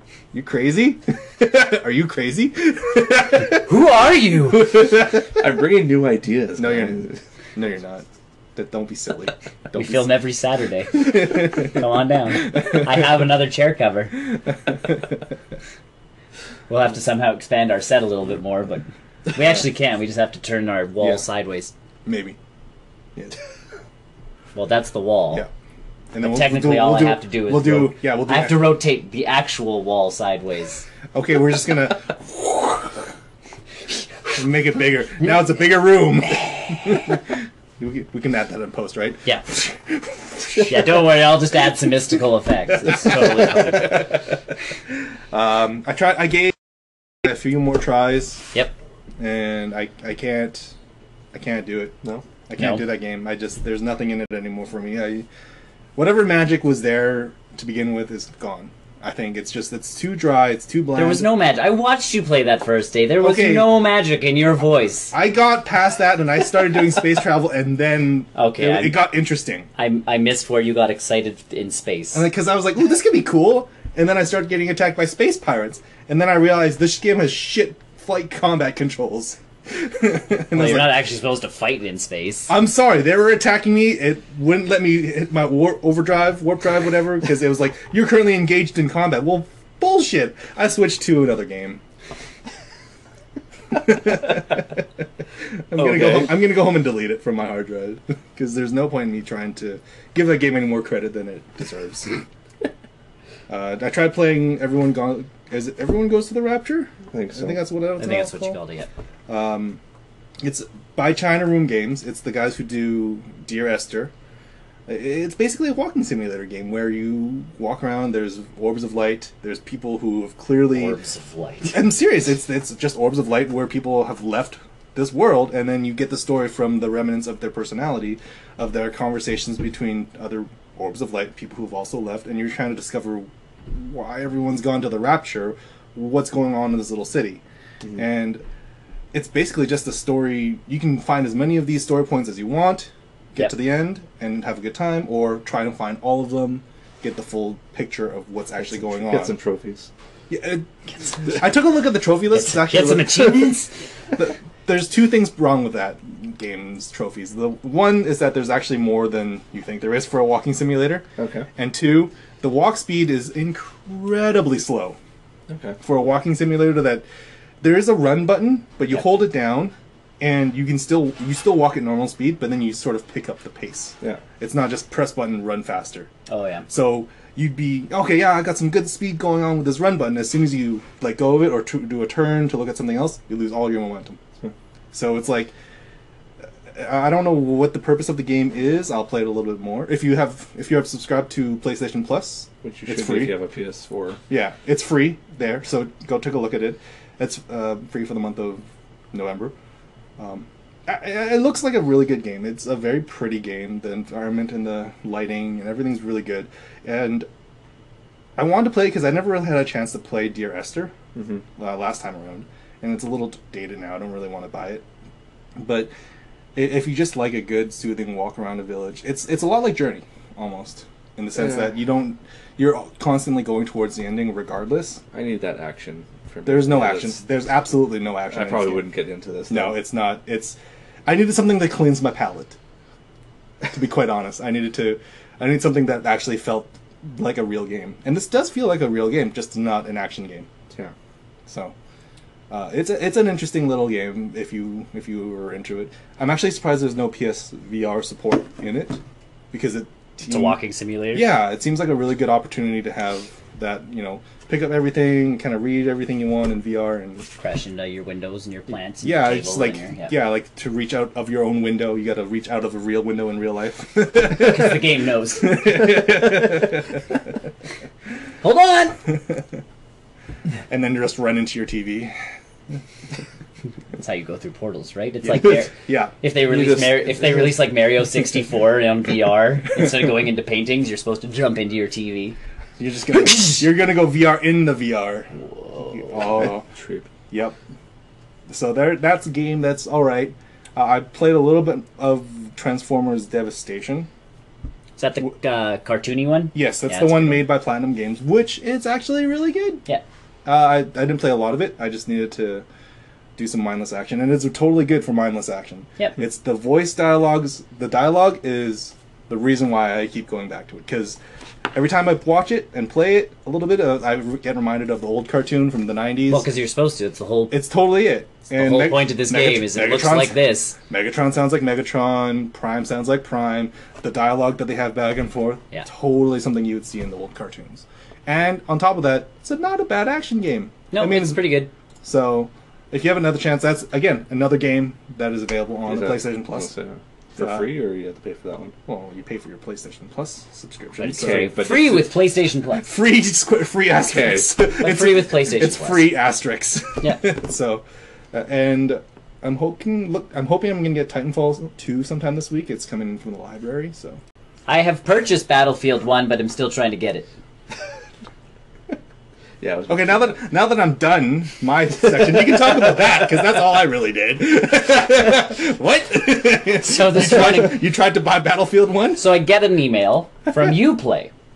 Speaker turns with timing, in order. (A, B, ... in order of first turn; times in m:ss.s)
0:00.3-0:03.7 A
0:03.6-0:04.7 B
0:04.6-0:07.2 C
0:04.7-0:05.2 A
0:06.6-0:10.1 A
0:09.7-0:14.2 B
0:10.9-0:11.8 A
0:12.5-0:12.8 A
0:16.7-0:21.7 B
0:22.0-0:22.4 A
0:24.5-0:25.4 B
0:26.1-0:28.8 A
0:26.2-0:30.8 B
0:31.1-0:33.0 A
0:34.3-0:40.8 A
0:40.6-0:44.2 B
0:42.8-0:44.2 A
0:45.3-0:46.6 A
0:47.2-0:48.4 A
0:49.2-0:50.7 A
0:51.3-0:51.9 A
0:52.5-0:55.2 A
0:52.6-0:52.8 B
0:56.0-1:01.3 A
1:00.9-1:05.1 B
1:03.2-1:03.7 A
1:05.1-1:09.7 A
1:08.3-1:09.0 B
1:09.8-1:12.2 B
1:12.1-1:21.0 A
1:20.5-1:22.5 B
1:22.5-1:31.8 A
1:33.7-1:34.8 A
1:35.7-1:42.2 A
1:35.8-1:36.4 C
1:43.5-1:48.6 A
1:47.1-1:47.6 C
1:48.0-1:48.9 B
1:49.3-1:49.8 A
1:50.4-1:54.1 A
1:54.9-2:01.0 A
2:00.7-2:01.8 B
2:01.7-2:17.4 A
2:17.9-2:18.4 A
2:19.1-2:29.3 A
2:28.8-2:29.9 C
2:30.3-2:33.6 A
2:32.3-2:33.7 B
2:34.1-2:41.0 A
2:41.2-2:41.5 C
2:41.6-2:45.0 A
2:45.5-2:45.8 C
2:45.8-2:47.0 A
2:47.6-2:56.1 A
2:56.3-2:56.7 B
2:56.7-3:04.2 A
3:04.9-3:05.5 A
3:06.7-3:13.3 A
3:12.6-3:14.2 C
3:14.3-3:19.5 A
3:20.2-3:27.3 A
3:28.4-3:30.9 A
3:31.1-3:31.4 C
3:31.6-3:34.8 A
3:35.6-3:35.9 A
3:36.5-3:45.0 A
3:45.1-3:47.2 C
3:46.4-3:48.8 A
3:48.3-3:49.8 C
3:49.5-3:52.6 A
3:53.6-4:00.5 A
4:01.5-4:01.7 A
4:02.5-4:09.0 A
4:09.5-4:10.6 A
4:10.2-4:11.3 B
4:11.1-4:17.2 A
4:17.4-4:20.2 B
4:19.0-4:24.9 A
4:24.2-4:25.9 B
4:25.4-4:26.9 A
4:28.4-4:29.0 B
4:30.7-4:32.1 A
4:33.9-4:42.4 B
4:35.8-4:36.1 A
4:36.5-4:37.5 C
4:42.8-4:45.3 A
4:45.8-4:46.6 A
4:46.3-4:47.1 C
4:47.3-4:47.6 A
4:48.5-4:54.1 A
4:55.0-4:57.4 B
4:56.5-4:59.8 A
5:00.4-5:02.6 A
5:03.4-5:11.2 A
5:11.7-5:16.4 A
5:16.3-5:17.6 B
5:17.5-5:20.4 A
5:18.5-5:20.8 B
5:20.9-5:36.7 A
5:30.9-5:31.7 B
5:35.8-5:38.7 C
5:37.4-5:37.7 A
5:38.8-5:41.5 A
5:41.0-5:42.9 B
5:41.2-5:42.1 C
5:42.7-5:54.2 A
5:44.1-5:44.5 C
5:44.8-5:46.1 B
5:54.7-5:57.3 B
5:59.6-6:00.4 C
5:59.9-6:09.2 A
6:06.8-6:07.8 B
6:09.2-6:11.3 B